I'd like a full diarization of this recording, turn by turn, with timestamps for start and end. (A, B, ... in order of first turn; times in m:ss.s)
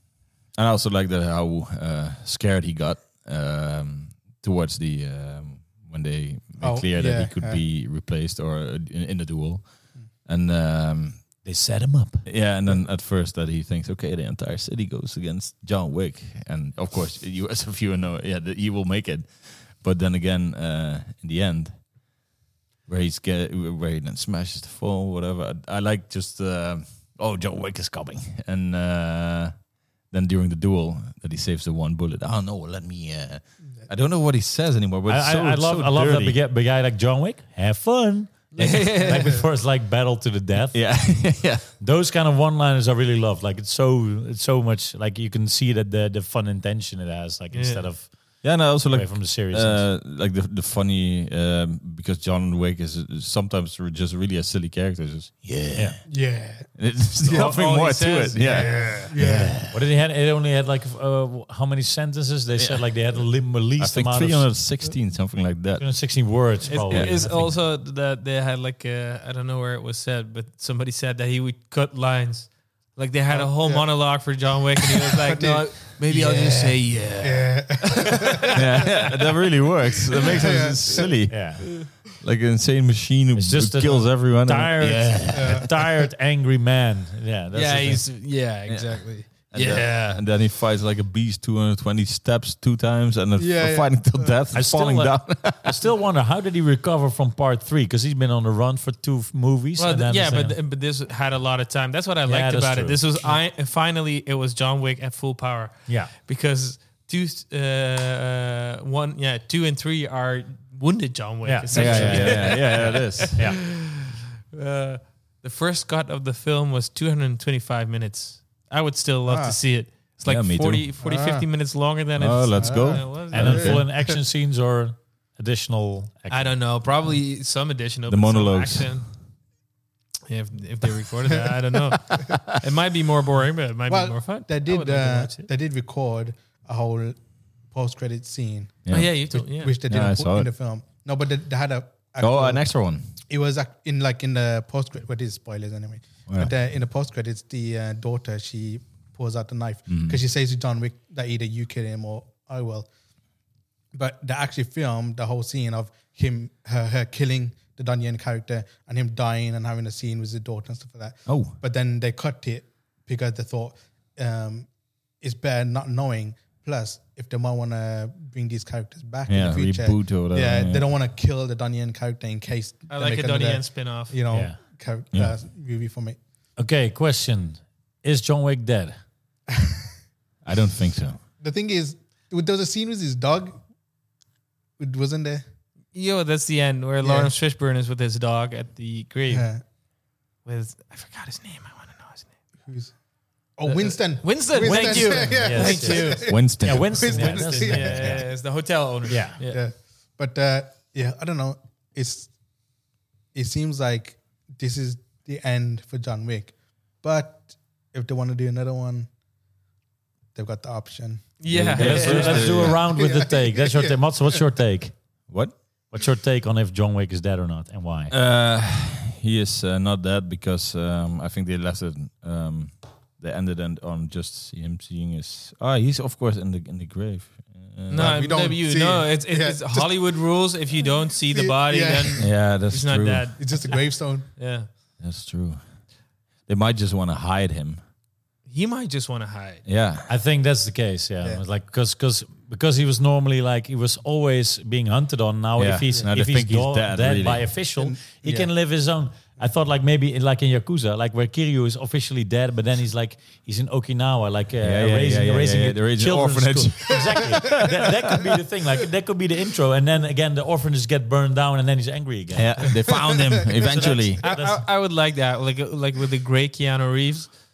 0:00.5-0:11.3 A
0:06.6-0:07.6 B
0:11.4-0:12.3 C
0:12.2-0:21.9 A
0:22.9-0:36.4 A
0:35.1-0:41.2 C
0:38.5-0:39.4 D
0:39.1-0:39.4 B
0:40.7-0:41.7 A
0:41.8-0:49.9 C
0:47.5-0:47.9 D
0:48.4-0:56.1 A
0:56.1-0:56.7 B
0:56.8-0:59.8 A
0:57.2-0:59.0 D
0:58.4-0:59.6 B
0:59.2-1:04.5 C
1:02.6-1:06.1 A
1:05.8-1:07.6 C
1:06.7-1:19.1 D
1:06.9-1:07.3 A
1:13.3-1:14.2 B
1:14.9-1:18.6 B
1:18.5-1:25.7 A
1:20.1-1:20.5 D
1:20.2-1:21.1 B
1:21.3-1:21.7 C
1:23.4-1:28.0 C
1:25.3-1:25.8 B
1:27.5-1:30.2 D
1:28.7-1:35.8 A
1:33.4-1:34.4 B
1:34.5-1:40.6 C
1:39.8-1:54.0 D
1:42.3-1:43.4 C
1:45.9-1:46.1 C
1:51.4-1:53.6 C
1:51.7-1:53.4 A
1:54.5-2:03.7 D
1:59.3-1:59.6 B
2:00.3-2:00.9 A
2:01.0-2:01.5 B
2:02.2-2:03.8 A
2:02.6-2:04.1 B
2:03.3-2:06.6 C
2:06.3-2:09.1 D
2:08.1-2:09.1 A
2:10.3-2:15.5 D
2:11.4-2:12.0 B
2:13.9-2:17.2 B
2:17.7-2:22.6 B
2:18.8-2:19.2 A
2:18.9-2:19.8 D
2:19.9-2:20.5 A
2:22.2-2:23.1 A
2:23.3-2:32.9 B
2:29.9-2:30.2 A
2:33.9-2:44.7 B
2:41.3-2:41.6 A
2:45.2-2:56.2 B
2:49.3-2:50.9 A
2:52.9-2:54.2 D
2:54.3-2:54.6 C
2:56.6-2:59.0 C
3:00.4-3:01.2 A
3:01.4-3:03.6 B
3:04.8-3:05.4 B
3:05.9-3:09.5 D
3:07.0-3:07.3 B
3:09.3-3:09.6 B
3:10.5-3:12.3 D
3:12.6-3:12.9 B
3:13.6-3:18.2 B
3:13.7-3:16.4 D
3:14.6-3:18.3 C
3:16.3-3:17.4 A
3:17.3-3:19.6 D
3:19.1-3:19.4 C
3:19.2-3:22.3 B
3:23.3-3:29.1 B
3:30.4-3:34.4 B
3:31.4-3:32.8 D
3:31.5-3:32.8 A
3:31.8-3:35.0 C
3:35.3-3:35.6 A
3:35.9-3:38.1 C
3:38.1-3:48.3 A
3:47.9-3:54.7 D
3:47.9-3:50.0 B
3:51.2-3:52.3 B
3:52.2-3:53.3 A
3:53.4-3:54.3 B
3:55.0-3:55.8 A
3:56.5-3:57.8 A
3:58.5-3:59.6 D
3:59.7-4:00.1 A
4:00.1-4:22.9 C
4:05.6-4:07.6 A
4:07.8-4:08.5 B
4:14.6-4:17.5 A
4:22.4-4:24.2 A
4:23.6-4:24.6 C
4:24.2-4:27.3 D
4:24.2-4:24.6 B